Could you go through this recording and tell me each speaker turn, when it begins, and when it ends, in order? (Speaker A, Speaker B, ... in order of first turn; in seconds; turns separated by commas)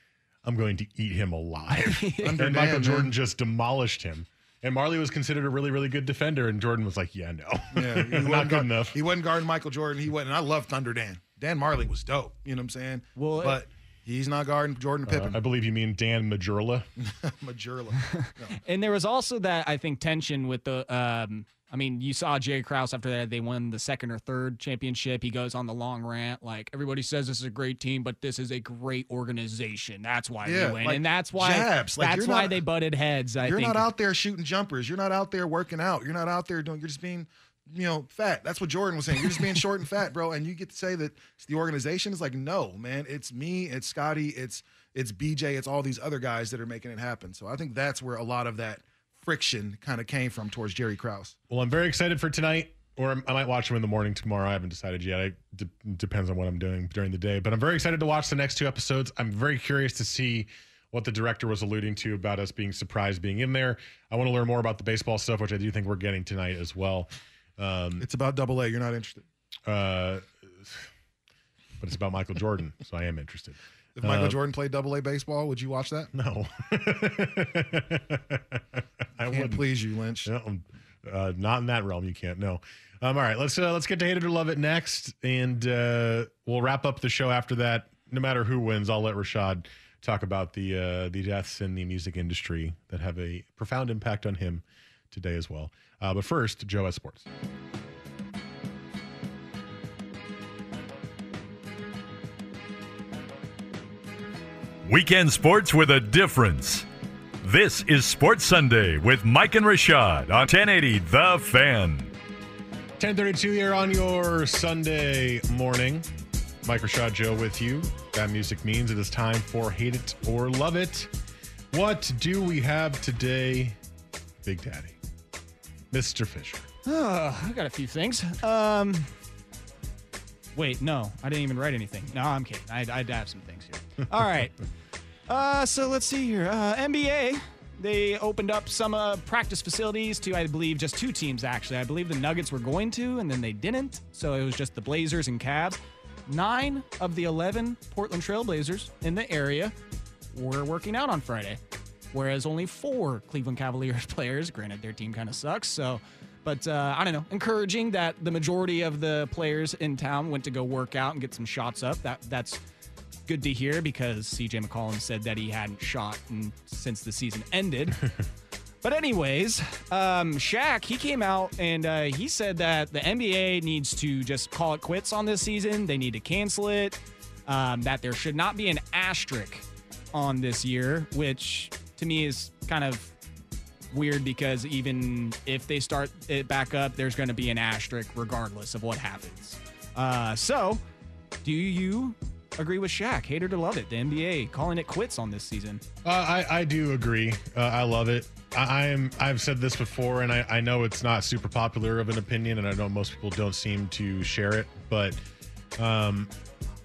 Speaker A: 0.4-9.0, Speaker B: 1.9-2.4, Speaker C: 2.2-3.1, Speaker C: 7.7-15.4, Speaker B: 13.2-13.6, Speaker A: 15.1-16.9, Speaker C: 17.0-18.6, Speaker B: 18.1-33.9, Speaker C: 30.4-32.6, Speaker C: 33.4-51.4, Speaker A: 51.5-68.1, Speaker C: 68.0-69.2, Speaker A: 69.7-70.9, Speaker A: 71.8-74.4, Speaker C: 74.0-76.1, Speaker A: 76.1-79.6, Speaker C: 79.2-80.3, Speaker A: 80.2-97.2, Speaker D: 104.8-106.8, Speaker D: 107.4-112.1, Speaker A: 113.0-116.0, Speaker A: 116.6-121.1, Speaker A: 121.7-123.8, Speaker A: 124.4-124.9, Speaker A: 125.9-126.7, Speaker B: 126.8-129.1, Speaker B: 130.5-134.5, Speaker B: 135.3-149.7, Speaker B: 150.3-151.6, Speaker B: 152.1-162.6, Speaker B: 163.3-168.0, Speaker B: 168.8-183.1, Speaker B: 183.9-190.8, Speaker B: 191.4-195.8, Speaker A: 196.0-205.2, Speaker A: 205.8-206.3